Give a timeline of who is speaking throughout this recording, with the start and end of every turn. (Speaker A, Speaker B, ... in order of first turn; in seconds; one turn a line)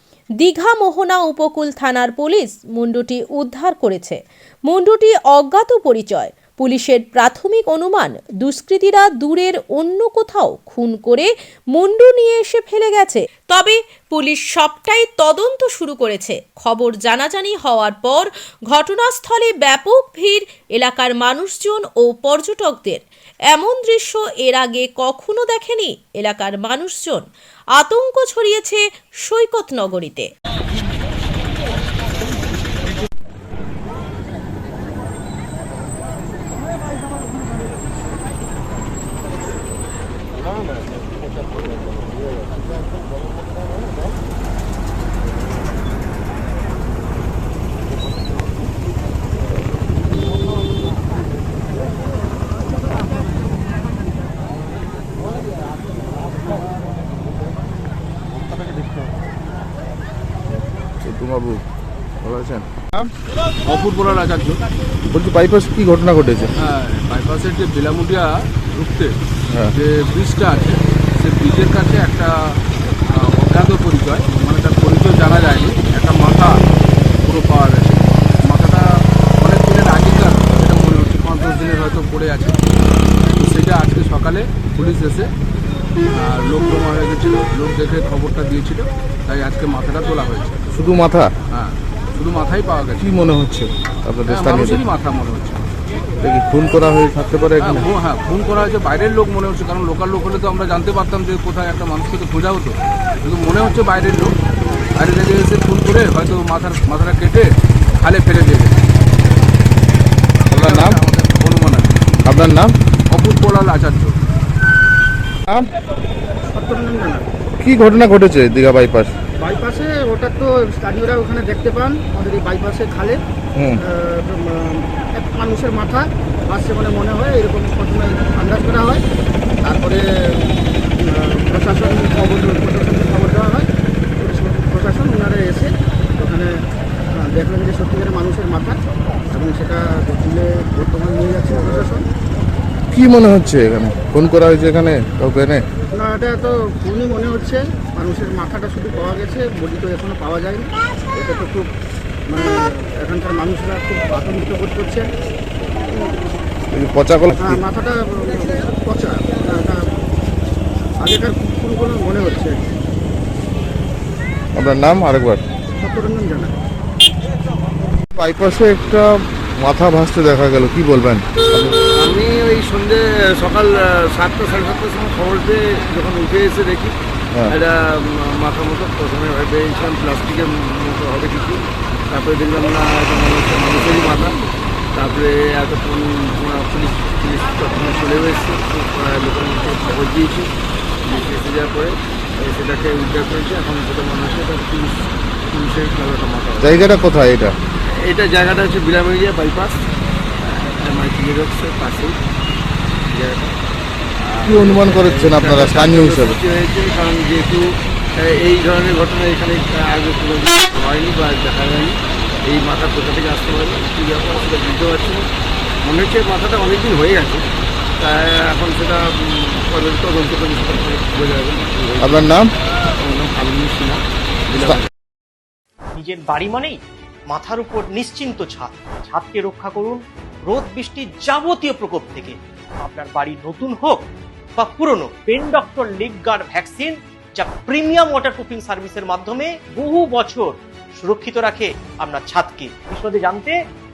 Speaker A: 0.4-27.2
Speaker A: 27.8-30.3
Speaker B: 61.0-61.6
Speaker B: 62.2-63.1
Speaker C: 63.7-64.6
Speaker B: 65.1-66.5
Speaker C: 66.6-69.1
Speaker C: 69.8-72.3
Speaker C: 73.1-76.6
Speaker C: 77.2-78.8
Speaker C: 79.4-82.7
Speaker C: 83.4-85.3
Speaker C: 86.2-90.7
Speaker B: 90.7-91.3
Speaker C: 91.5-93.3
Speaker B: 93.0-94.8
Speaker C: 94.3-95.7
Speaker B: 96.2-97.9
Speaker C: 97.6-104.3
Speaker C: 105.0-108.8
Speaker B: 110.5-111.0
Speaker C: 110.5-111.9
Speaker B: 112.3-112.7
Speaker C: 113.1-114.2
Speaker D: 116.5-117.3
Speaker B: 117.6-119.1
Speaker D: 119.4-123.2
Speaker D: 123.8-129.0
Speaker D: 129.6-133.7
Speaker D: 134.2-136.5
Speaker D: 137.2-138.8
Speaker D: 139.3-142.0
Speaker B: 142.9-145.6
Speaker D: 146.0-151.7
Speaker D: 152.3-155.1
Speaker D: 155.9-156.2
Speaker B: 156.7-157.6
Speaker D: 157.4-159.9
Speaker D: 161.0-162.6
Speaker B: 164.6-165.4
Speaker D: 165.8-166.5
Speaker B: 168.1-171.8
Speaker E: 172.0-176.9
Speaker E: 177.5-184.4
Speaker E: 184.9-190.5
Speaker E: 191.1-196.8
Speaker B: 196.6-197.5
Speaker E: 198.0-199.9
Speaker E: 200.4-202.2
Speaker E: 203.1-203.6
Speaker E: 204.2-207.7
Speaker B: 204.4-206.4
Speaker E: 208.2-215.3
Speaker E: 215.8-217.4
Speaker E: 218.0-222.3
Speaker B: 222.0-222.5
Speaker E: 223.0-224.9
Speaker F: 225.9-226.8
Speaker F: 227.3-234.0
Speaker F: 234.6-243.6